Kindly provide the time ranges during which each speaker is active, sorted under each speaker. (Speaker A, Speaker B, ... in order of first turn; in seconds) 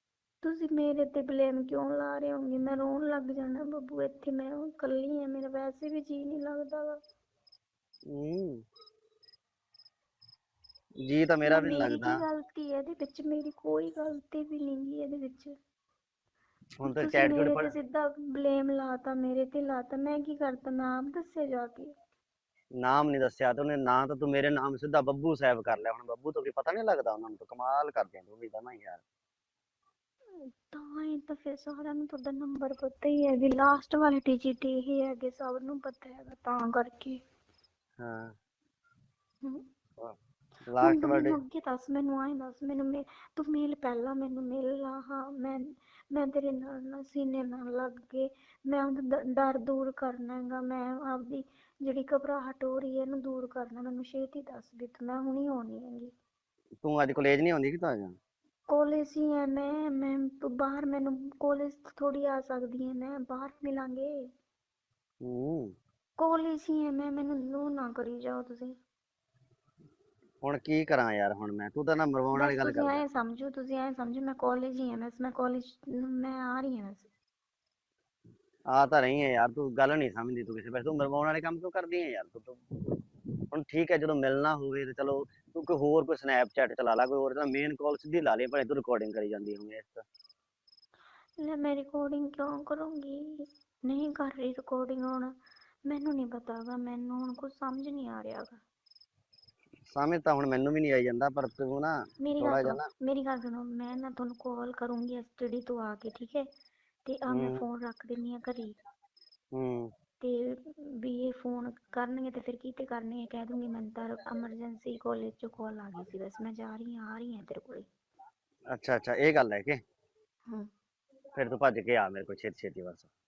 Speaker A: 0.4-7.0, 11.5-15.5, 16.8-21.9, 30.7-37.2, 40.8-56.1, 58.7-64.1, 66.2-68.7, 72.3-77.1, 91.4-95.3, 95.9-98.6, 102.2-106.4, 107.0-108.7, 110.2-117.8
Speaker B: 8.1-8.6, 11.0-12.2, 16.8-17.7, 22.8-29.0, 38.0-38.3, 40.0-41.4, 56.8-58.1, 65.2-65.7, 70.4-73.0, 78.7-82.6, 83.5-90.0, 99.9-102.9, 107.3-107.6, 109.5-109.9, 118.7-119.8, 121.3-123.1